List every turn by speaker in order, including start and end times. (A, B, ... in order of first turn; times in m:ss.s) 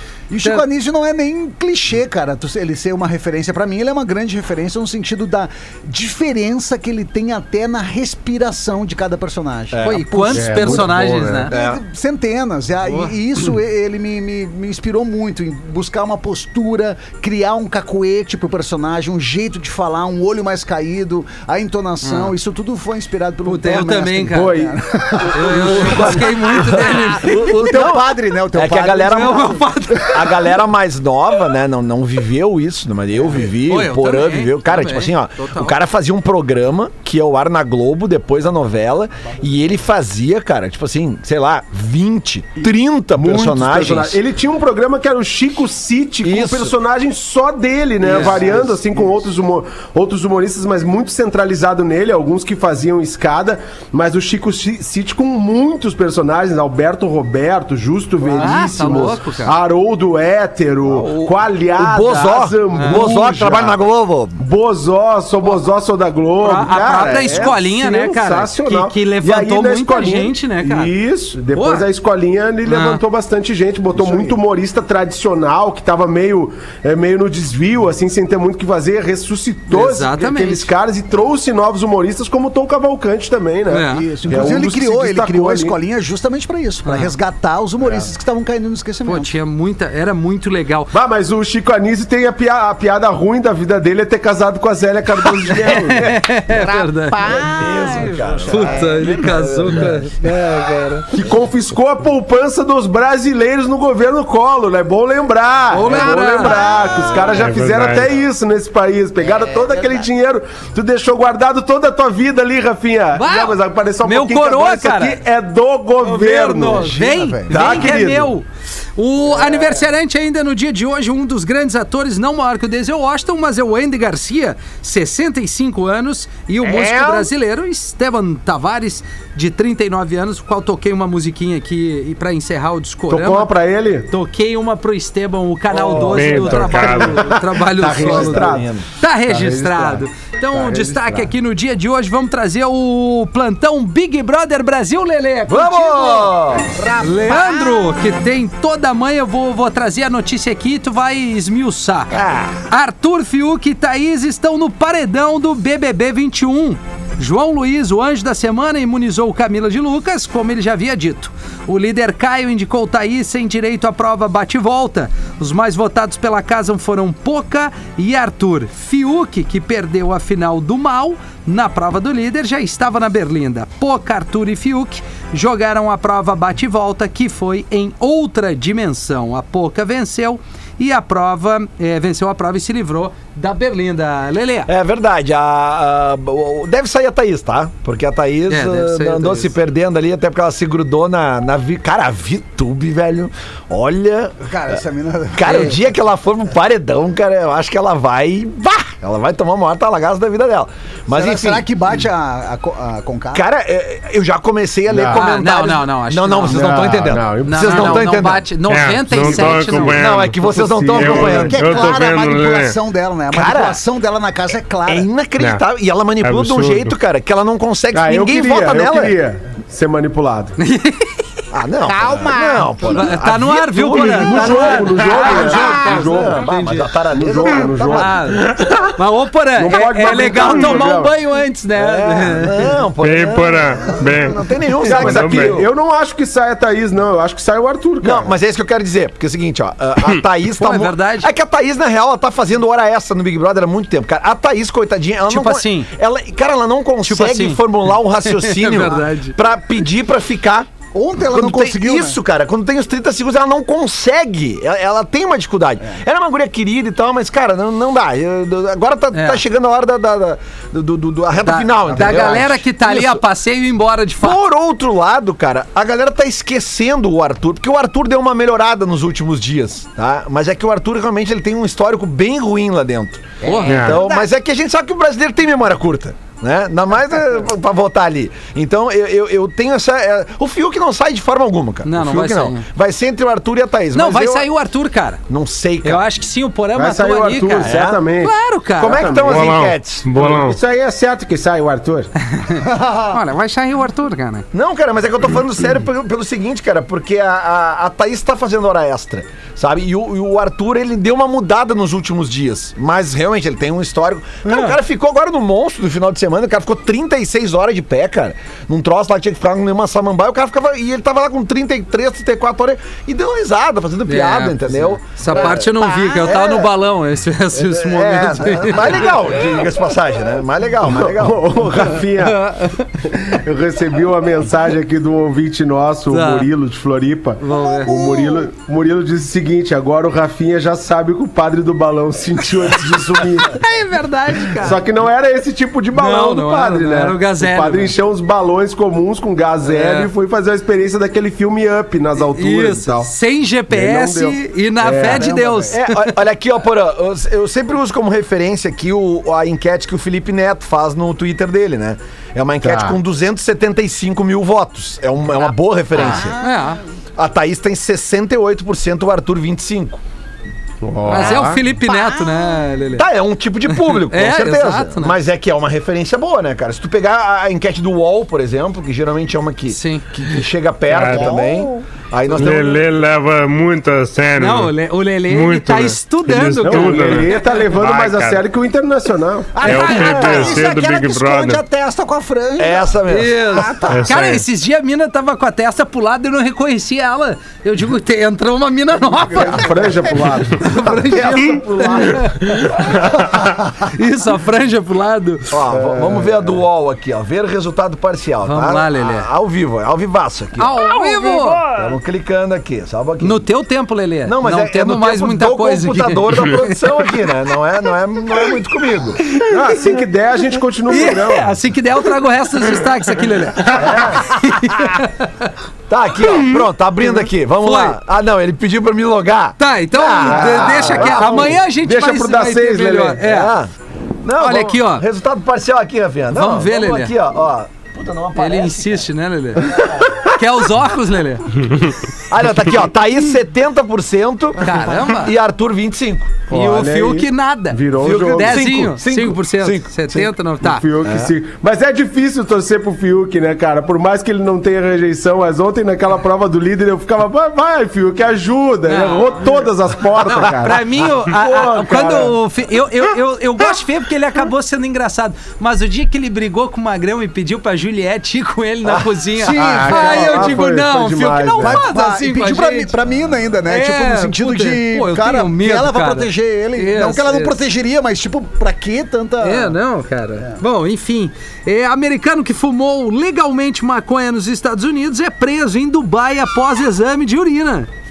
0:00.3-0:10.9 A
0:09.7-0:10.4 B
0:09.8-0:11.5 C
0:10.3-0:11.5 D
0:11.5-0:29.7 A
0:11.5-0:11.8 B
0:12.9-0:13.1 C
0:22.0-0:22.3 C
0:23.4-0:24.6 C
0:24.3-0:25.3 D
0:25.3-0:27.9 C
0:25.4-0:44.2 B
0:29.1-0:30.3 C
0:33.6-0:35.8 C
0:43.2-1:03.8 D
0:46.2-0:46.7 B
0:48.0-0:49.2 B
0:48.1-0:48.5 C
0:58.2-0:59.1 B
0:58.4-0:59.6 C
1:00.8-1:04.4 B
1:02.7-1:03.1 C
1:04.4-1:25.7 D
1:06.4-1:10.9 C
1:07.0-1:07.5 A
1:11.5-1:11.8 C
1:12.6-1:13.0 C
1:13.9-1:14.4 A
1:19.7-1:20.7 C
1:23.7-1:24.0 C
1:23.9-1:29.3 A
1:26.8-1:27.1 C
1:27.8-1:28.1 D
1:29.0-1:30.9 C
1:30.9-1:36.2 D
1:35.4-1:37.2 C
1:36.5-1:39.6 A
1:37.3-1:40.1 B
1:38.5-1:41.2 C
1:41.1-1:57.0 D
1:45.7-1:46.7 C
1:45.8-1:47.4 A
1:47.3-1:48.1 E
1:49.2-1:50.0 A
1:53.1-1:55.2 C
1:56.0-2:13.5 C
1:56.7-1:57.6 A
1:57.5-1:58.3 D
2:06.6-2:07.2 B
2:13.1-2:14.1 D
2:14.1-2:26.2 C
2:15.7-2:16.8 B
2:16.1-2:17.2 E
2:16.9-2:18.7 D
2:17.8-2:18.8 B
2:19.2-2:21.3 D
2:25.5-2:26.8 B
2:25.9-2:28.0 A
2:27.0-2:32.1 C
2:32.1-2:32.6 B
2:32.7-3:04.7 C
3:04.7-3:14.5 B
3:08.5-3:09.5 C
3:14.4-3:15.7 A
3:15.3-3:21.6 B
3:15.4-3:15.7 C
3:21.1-3:23.4 A
3:23.3-3:28.4 B
3:24.9-3:25.2 D
3:25.1-3:26.6 C
3:26.5-3:28.1 D
3:27.4-3:30.0 C
3:28.7-3:30.4 E
3:29.1-3:31.9 B
3:30.2-3:31.5 D
3:30.9-3:32.7 E
3:31.1-3:35.1 A
3:33.3-3:33.8 B
3:34.9-3:39.2 B
3:36.2-3:36.9 E
3:37.9-3:40.6 D
3:40.6-3:41.1 C
3:41.5-3:48.5 B
3:41.8-3:43.2 A
3:42.9-3:46.9 C
3:44.0-3:46.5 D
3:45.4-3:45.7 A
3:47.1-3:48.1 D
3:47.9-3:52.6 C
3:48.6-3:48.8 E
3:49.6-3:51.1 D
3:51.8-3:55.6 B
3:53.0-3:55.6 E
3:54.8-3:58.3 D
3:58.0-4:10.7 B
4:00.6-4:01.3 C
4:05.3-4:05.9 C
4:07.0-4:07.6 C
4:08.2-4:09.4 C
4:10.9-4:12.2 A
4:11.3-4:23.2 B
4:19.1-4:19.4 C
4:21.4-4:24.4 C
4:21.9-4:22.4 A
4:24.2-4:44.5 B
4:33.4-4:34.3 A
4:33.4-4:33.8 C
4:33.7-4:34.0 E
4:41.8-4:42.6 C
4:43.9-4:45.2 C
4:45.3-4:46.0 B
4:45.8-4:49.1 C
4:46.7-4:49.6 D
4:47.6-4:48.0 B
4:48.8-4:50.1 B
4:49.2-4:50.6 E
4:50.1-4:52.1 D
4:52.5-4:54.4 C
4:52.6-4:53.2 A
4:54.5-5:15.7 B
5:04.4-5:04.8 C
5:14.1-5:19.1 C
5:15.3-5:16.6 A
5:16.2-5:16.7 B
5:17.5-5:22.0 B
5:20.8-5:33.6 D
5:22.2-5:22.9 C
5:26.1-5:26.5 C
5:27.4-5:27.9 C
5:27.8-5:28.3 A
5:33.4-5:34.8 C
5:34.6-5:43.1 D
5:35.9-5:37.9 C
5:39.6-5:40.1 C
5:42.3-5:45.8 C
5:43.7-5:45.4 D
5:44.9-5:45.8 A
5:45.7-5:56.4 B
5:52.6-5:53.0 D
5:55.4-5:56.8 A
5:56.0-5:56.8 C
5:57.2-6:00.0 B
6:00.8-6:01.6 D
6:01.1-6:03.0 C
6:01.1-6:02.6 A
6:02.9-6:12.8 B
6:03.7-6:05.2 C
6:09.7-6:10.1 C
6:10.9-6:11.3 E
6:11.1-6:11.9 A
6:12.3-6:14.7 E
6:14.4-6:17.6 C
6:15.3-6:18.4 E
6:16.6-6:19.7 D
6:19.5-6:24.1 A
6:19.6-6:21.6 E
6:19.7-6:20.6 B
6:22.6-6:23.6 B
6:23.1-6:29.7 C
6:23.9-6:24.4 E
6:29.3-6:32.2 D
6:30.6-6:33.0 C
6:33.2-6:33.5 E
6:33.8-6:35.5 C
6:35.5-6:40.7 B
6:35.7-6:36.6 D
6:38.4-6:39.3 C
6:40.6-6:41.6 C
6:41.7-6:43.4 B
6:43.2-6:46.8 C
6:44.2-6:49.2 B
6:49.5-6:51.5 D
6:50.9-6:55.5 C
6:53.7-6:54.4 B
6:55.9-7:01.5 B
6:57.6-6:58.0 C
6:59.6-7:03.5 C
7:00.2-7:03.2 D
7:03.2-7:03.7 B
7:04.2-7:09.0 B
7:04.4-7:05.0 C
7:06.3-7:07.1 C
7:08.4-7:11.5 C
7:09.6-7:10.1 B
7:12.3-7:16.4 B
7:14.6-7:15.3 C
7:16.5-7:18.8 D
7:16.5-7:20.8 C
7:18.0-7:20.3 B
7:20.6-7:32.4 D
7:21.0-7:21.3 B
7:28.9-7:29.6 C
7:30.2-7:42.9 C
7:39.4-7:40.6 A
7:39.4-7:41.8 D
7:41.6-7:49.8 A
7:43.7-7:47.6 C
7:49.4-7:57.9 C